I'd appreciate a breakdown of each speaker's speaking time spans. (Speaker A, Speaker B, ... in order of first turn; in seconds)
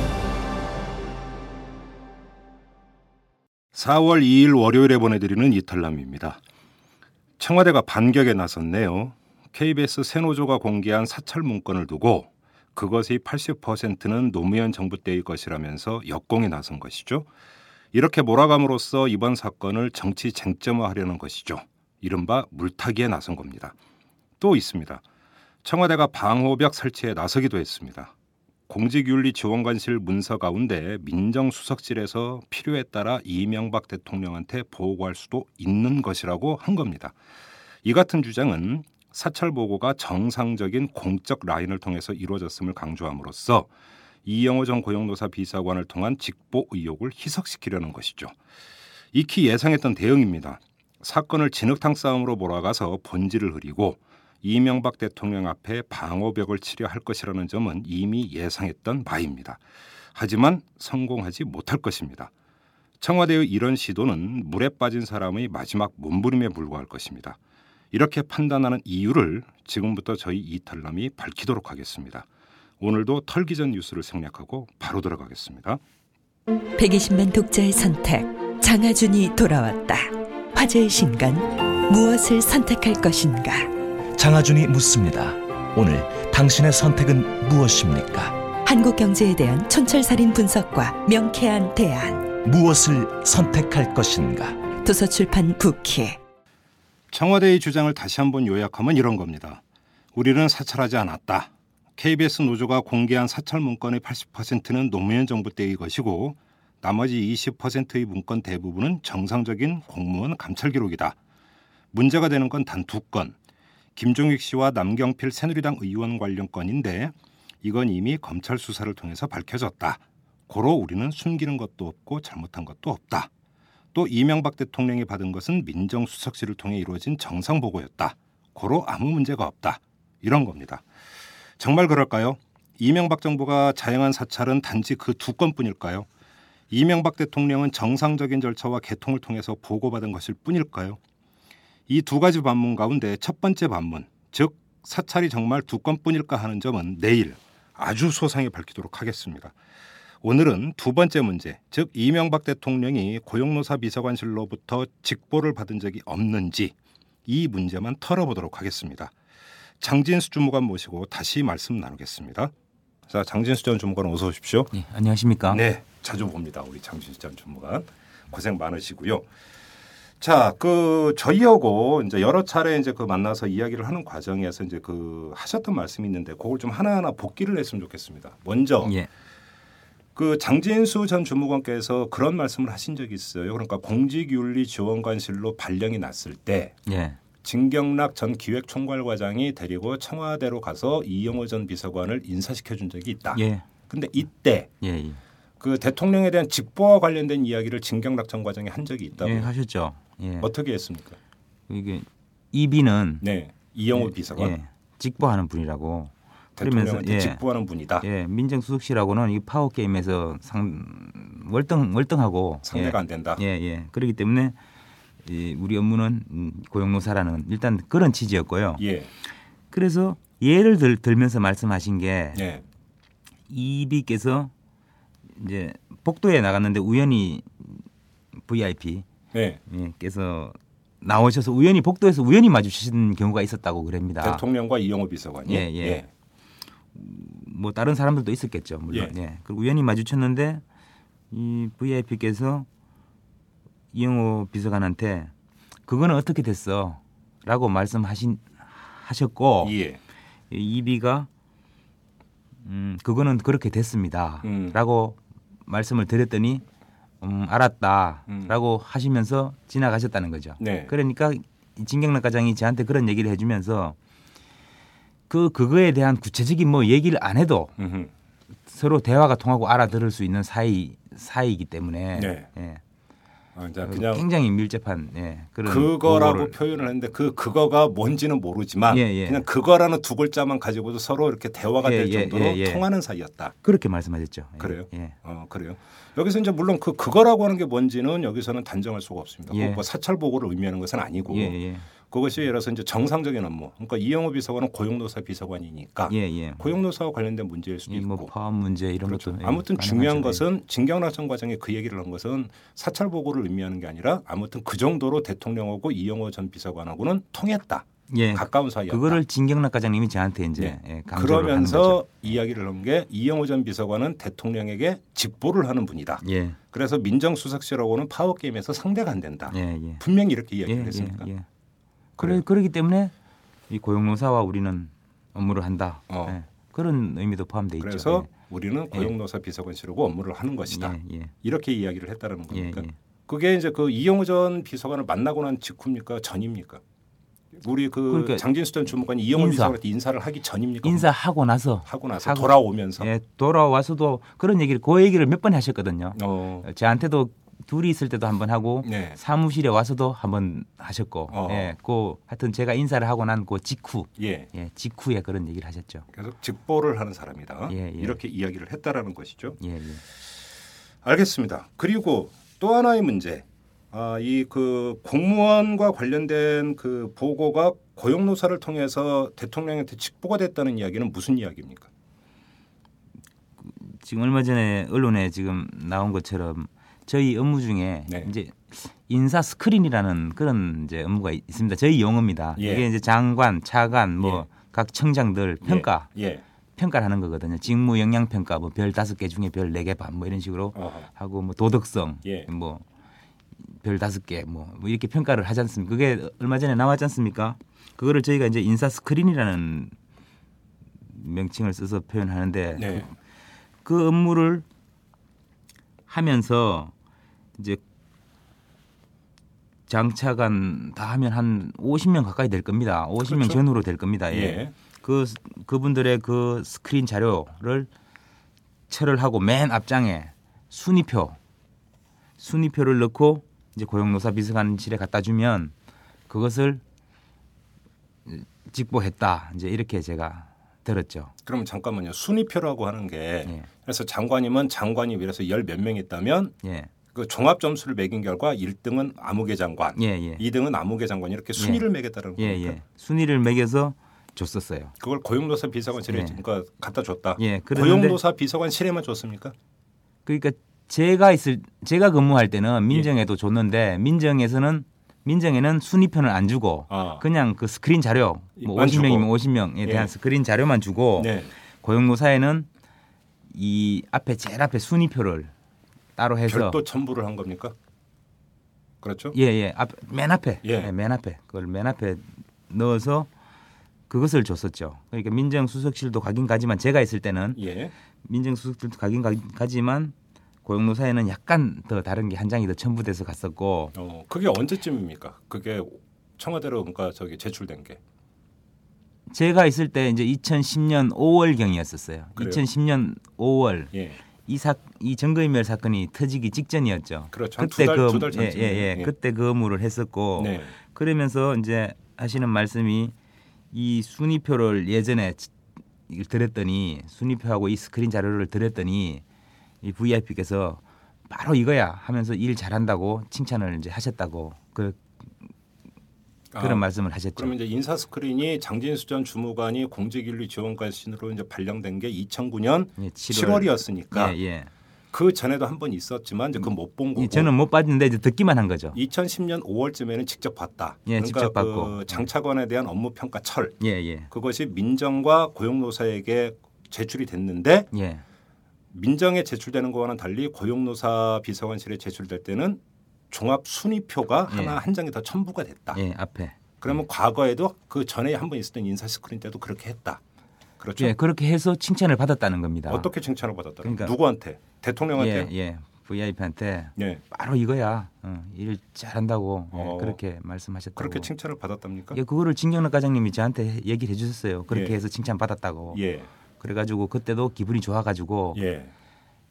Speaker A: 3.7-6.4, 7.4-17.3, 17.9-23.8, 24.4-25.0, 25.6-28.1, 28.7-37.1, 37.8-43.7, 44.2-48.4, 49.1-59.6, 60.1-62.3, 63.0-67.4, 67.9-72.3, 72.8-75.8, 97.1-99.6, 100.1-111.2, 111.9-113.4, 114.0-123.3, 123.9-130.8, 131.6-136.1, 136.7-141.0, 141.9-149.6, 150.2-156.7, 157.3-159.1, 159.8-162.5, 163.1-164.7, 165.5-169.3, 170.2-178.9, 180.2-186.8, 187.4-194.7, 195.6-199.5, 200.4-201.2, 203.2-204.6, 206.6-208.1, 212.7-213.4, 218.8-219.1, 222.3-222.6, 229.3-229.6, 234.2-236.1, 249.6-250.0, 254.4-254.8, 260.6-260.9, 267.8-268.1, 272.1-272.5, 273.6-274.3, 275.6-283.5, 284.6-298.3, 299.1-309.2, 310.6-321.3, 322.2-322.4, 326.1-326.4, 327.8-336.8, 337.6-341.1, 341.9-343.1, 346.2-346.7, 348.8-349.2, 351.3-351.7, 354.2-354.5, 356.1-359.6, 361.0-371.9, 382.6-382.9, 384.2-384.5, 385.6-386.4, 390.8-391.1, 402.8-403.1, 413.2-413.6, 414.3-414.7, 431.5-436.6, 437.1-442.8, 445.0-449.6, 456.9-457.2, 458.6-459.3, 459.8-460.1, 461.2-461.5, 466.5-467.8, 469.0-469.4, 470.6-470.9, 477.6-477.9, 483.9-488.0, 492.4-492.6, 493.9-494.2, 497.3-499.1, 500.4-500.8, 516.5-516.9, 517.4-524.4, 525.1-527.5, 528.9-537.9, 538.9-546.0, 546.8-550.2, 550.8-551.2, 552.9-555.5, 557.0-557.2, 559.7-560.2, 561.0-562.2, 564.7-565.0, 565.9-566.3, 568.5-568.9
Speaker B: 76.8-83.7, 88.7-92.3, 94.8-96.2
Speaker C: 84.2-88.4, 92.4-94.7
Speaker D: 164.7-165.6, 178.8-179.1, 186.9-187.2, 193.3-193.7, 194.8-195.2, 199.2-200.5, 201.7-203.2, 204.0-207.4, 208.0-214.6, 215.2-218.8, 219.7-222.4, 223.5-224.5, 225.4-227.8, 228.4-229.1, 229.7-234.4, 235.5-236.0, 236.9-240.6, 241.3-242.7, 243.9-245.3, 245.9-249.7, 250.5-251.3, 252.7-256.6, 257.2-264.0, 265.3-267.7, 268.7-272.8, 273.9-276.5, 278.9-279.4, 281.8-282.8, 283.6-285.2, 289.5-289.8, 291.3-291.9, 296.1-296.6, 297.9-300.4, 308.1-312.3, 316.2-316.6, 319.5-320.0, 320.7-321.5, 322.2-323.1, 323.7-328.3, 330.7-331.3, 332.5-332.9, 338.1-338.4, 339.3-339.8, 340.8-356.1, 357.7-358.2, 359.6-360.0, 373.6-386.1, 386.8-392.8, 393.8-399.9, 401.1-403.1, 403.9-404.6, 406.1-406.9, 407.6-407.8, 409.9-417.9, 418.9-421.4, 422.4-425.7, 426.3-426.8, 428.3-431.3, 436.6-436.9, 440.0-440.4, 441.6-441.8, 442.4-444.9, 446.1-446.4, 447.4-448.2, 450.3-462.7, 463.5-465.5, 466.2-466.8, 469.3-473.3, 474.1-477.6, 478.2-480.1, 480.6-483.9, 489.3-493.9, 494.4-503.1, 503.7-505.5, 506.1-509.2, 509.8-515.3, 516.6-517.5, 523.0-524.7, 527.2-529.0, 531.1-532.3, 533.8-534.3, 537.9-538.2, 544.5-544.8, 545.9-546.7, 551.0-553.1, 553.8-554.1, 555.2-561.3, 562.1-566.0, 566.6-568.6